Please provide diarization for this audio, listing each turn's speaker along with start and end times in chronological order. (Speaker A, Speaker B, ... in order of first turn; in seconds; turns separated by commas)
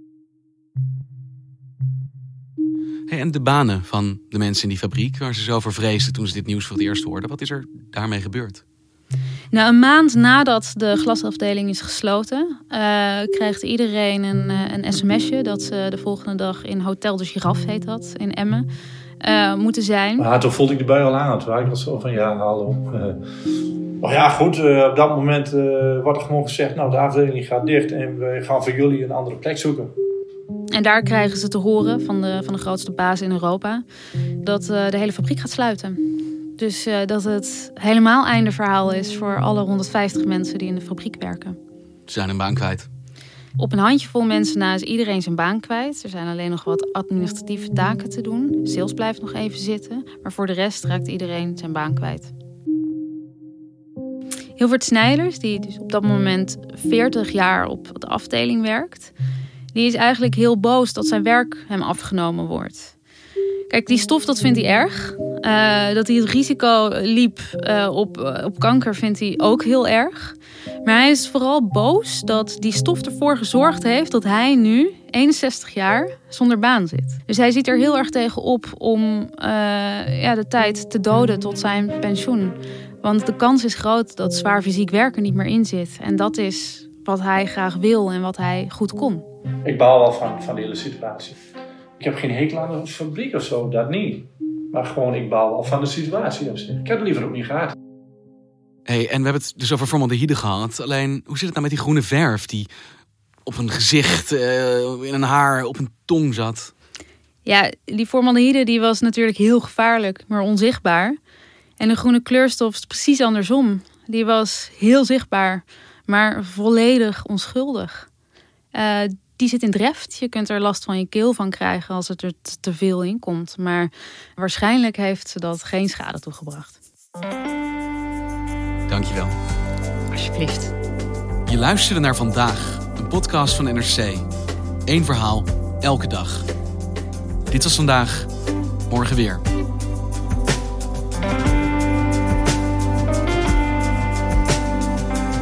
Speaker A: 3.1-8.6, Speaker B: 9.5-18.7, Speaker B: 19.2-20.2, Speaker C: 20.2-23.2, Speaker C: 24.0-29.9, Speaker B: 30.7-33.8, Speaker B: 34.4-41.6, Speaker A: 42.1-42.9, Speaker B: 43.6-52.3, Speaker B: 54.6-59.1, Speaker B: 59.7-62.9, Speaker B: 63.7-89.2, Speaker C: 89.6-91.3, Speaker C: 92.0-97.7, Speaker A: 98.9-102.7, Speaker A: 103.5-106.7, Speaker B: 107.4-111.2, Speaker B: 111.8-118.1, Speaker B: 118.7-126.8, Speaker A: 128.9-129.3, Speaker B: 130.1-130.7, Speaker A: 131.5-134.3, Speaker A: 134.8-136.5, Speaker A: 137.5-138.3, Speaker A: 138.9-139.4